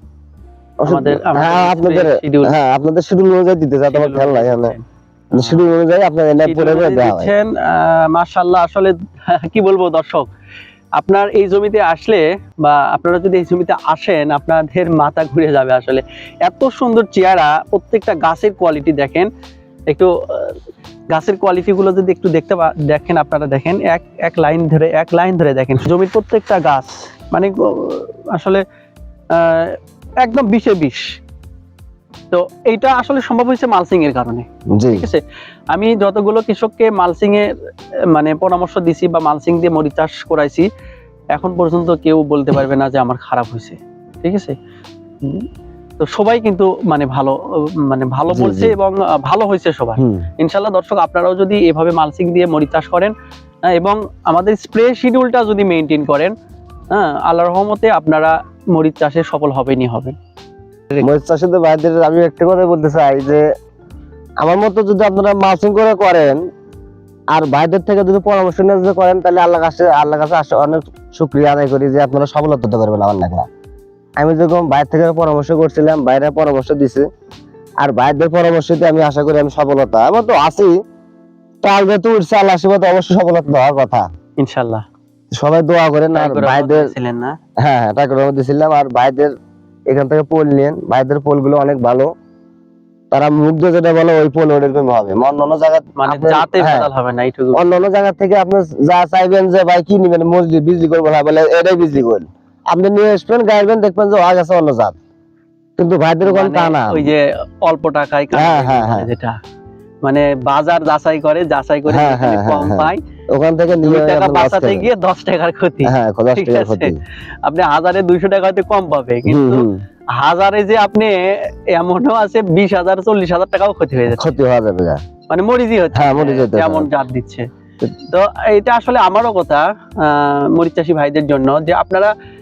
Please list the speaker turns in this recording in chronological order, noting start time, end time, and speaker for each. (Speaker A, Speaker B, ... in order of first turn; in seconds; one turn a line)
Speaker A: 0.8-4.7
Speaker B: 0.8-2.5
Speaker B: 3.9-5.6
Speaker A: 5.3-7.3
Speaker B: 6.4-10.2
Speaker B: 11.0-19.3
Speaker B: 19.9-20.6
Speaker B: 21.1-28.6
Speaker B: 29.3-31.0
Speaker B: 32.3-35.2
Speaker A: 34.8-35.1
Speaker B: 35.7-37.5
Speaker B: 38.1-40.7
Speaker B: 41.3-44.5
Speaker B: 46.0-53.1
Speaker A: 48.3-48.7
Speaker A: 50.0-50.2
Speaker B: 53.7-56.3
Speaker B: 56.9-60.1
Speaker A: 61.0-63.4
Speaker A: 64.4-66.4
Speaker A: 67.3-73.5
Speaker A: 74.2-77.0
Speaker A: 77.8-80.7
Speaker A: 81.6-84.0
Speaker B: 84.4-84.8
Speaker A: 85.4-86.9
Speaker B: 86.1-87.4
Speaker A: 87.6-89.3
Speaker A: 89.9-92.1
Speaker A: 93.1-96.9
Speaker B: 96.0-97.6
Speaker A: 97.5-104.9
Speaker A: 105.8-107.1
Speaker B: 106.2-109.3
Speaker A: 108.3-109.1
Speaker B: 110.0-113.0
Speaker A: 111.9-114.9
Speaker B: 113.8-116.9
Speaker A: 115.8-117.0
Speaker B: 117.4-119.7
Speaker A: 119.2-119.8
Speaker B: 120.2-124.4
Speaker A: 124.1-125.0
Speaker B: 125.3-127.5
Speaker A: 125.9-126.9
Speaker B: 128.1-132.1